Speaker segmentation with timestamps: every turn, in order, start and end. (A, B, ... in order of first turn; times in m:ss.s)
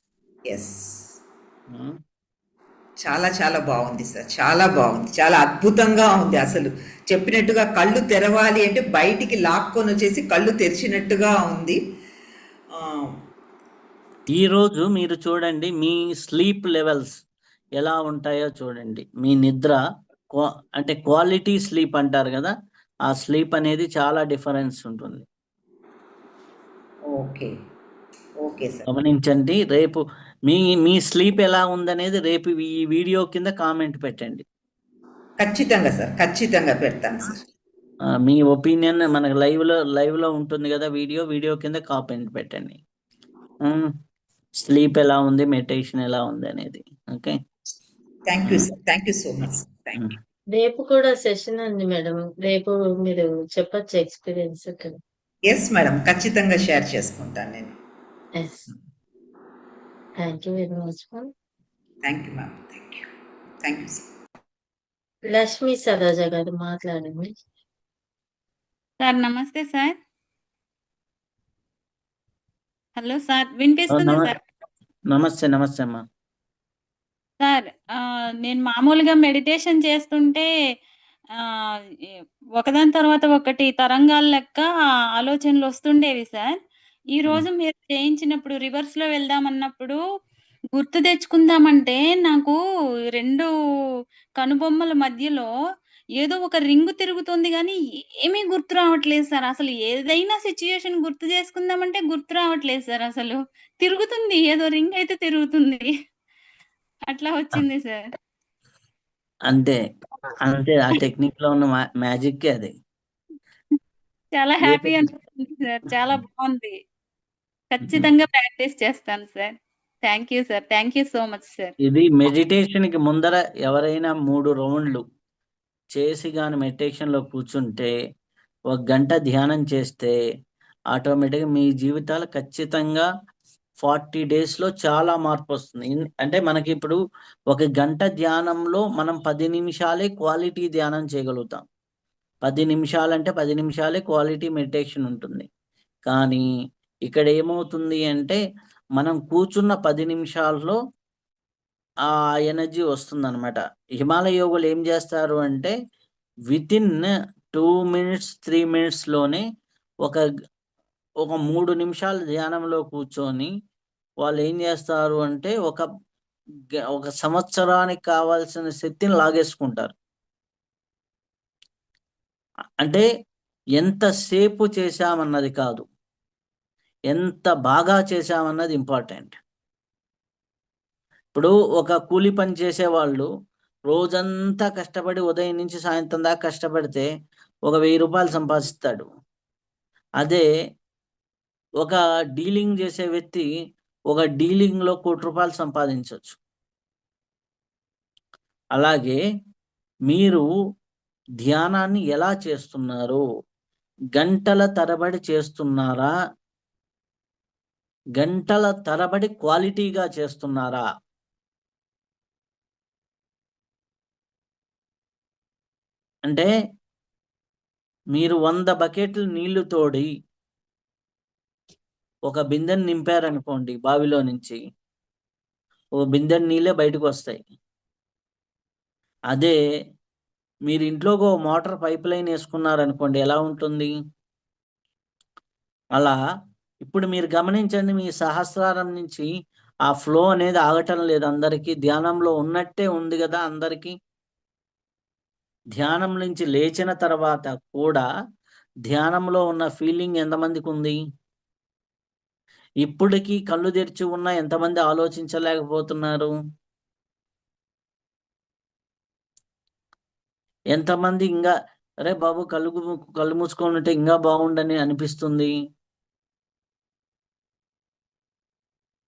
0:00.5-0:01.0 A
0:01.7-0:02.0 B
0:03.0-0:11.8 A
0:12.8-0:13.1 A
0:14.3-0:17.2 B
0:17.8-0:19.8 B
0:20.3-0:22.5 B
0:23.1-0:25.2 B
0:27.1-0:27.5 A
0:28.4-0:28.8 A
0:28.8-0:34.4 B
0:35.4-0:37.4 A
0:38.1-0:42.8 B
0:43.6-0:43.9 B
0:44.6-0:47.4 B
0:48.3-0:50.1 A
0:50.5-0:55.0 C
0:55.5-0:57.7 A
0:58.4-0:58.6 C
1:00.2-1:01.3 C
1:02.0-1:03.1 A
1:03.6-1:04.0 A
1:05.3-1:07.3 C
1:09.0-1:09.9 D
1:13.0-1:14.4 D
1:13.9-1:14.3 B
1:15.1-1:16.0 B
1:17.4-1:20.4 D
1:21.3-1:26.6 D
1:27.1-1:30.0 D
1:30.7-1:32.6 D
1:33.1-1:33.5 D
1:34.4-1:35.5 D
1:36.2-1:45.9 D
1:47.1-1:48.1 D
1:49.5-1:49.8 B
1:50.4-1:52.7 B
1:54.4-1:56.8 D
1:54.6-1:55.0 B
1:57.7-1:59.5 D
2:00.0-2:01.7 D
2:01.8-2:05.0 B
2:05.9-2:07.9 B
2:08.7-2:10.1 B
2:10.9-2:13.1 B
2:13.8-2:17.0 B
2:17.5-2:21.6 B
2:22.4-2:25.5 B
2:26.0-2:26.4 B
2:27.1-2:28.4 B
2:29.0-2:30.8 B
2:32.1-2:35.7 B
2:36.5-2:39.4 B
2:41.2-2:43.5 B
2:44.2-2:45.8 B
2:47.0-2:49.9 B
2:53.8-2:55.8 B
2:57.1-2:59.4 B
3:01.3-3:03.3 B
3:03.9-3:07.1 B
3:07.6-3:09.0 B
3:11.8-3:13.5 B
3:14.1-3:16.4 B
3:18.8-3:19.2 B
3:20.1-3:20.4 B
3:21.4-3:23.2 B
3:24.1-3:26.1 B
3:28.2-3:30.8 B
3:38.1-3:40.1 B
3:42.3-3:44.6 B
3:46.0-3:47.4 B
3:50.7-3:53.9 B
3:56.8-3:59.2 B
3:59.9-4:03.9 B
4:05.8-4:08.0 B
4:08.9-4:11.0 B
4:12.8-4:16.3 B
4:20.7-4:21.5 B
4:22.0-4:25.5 B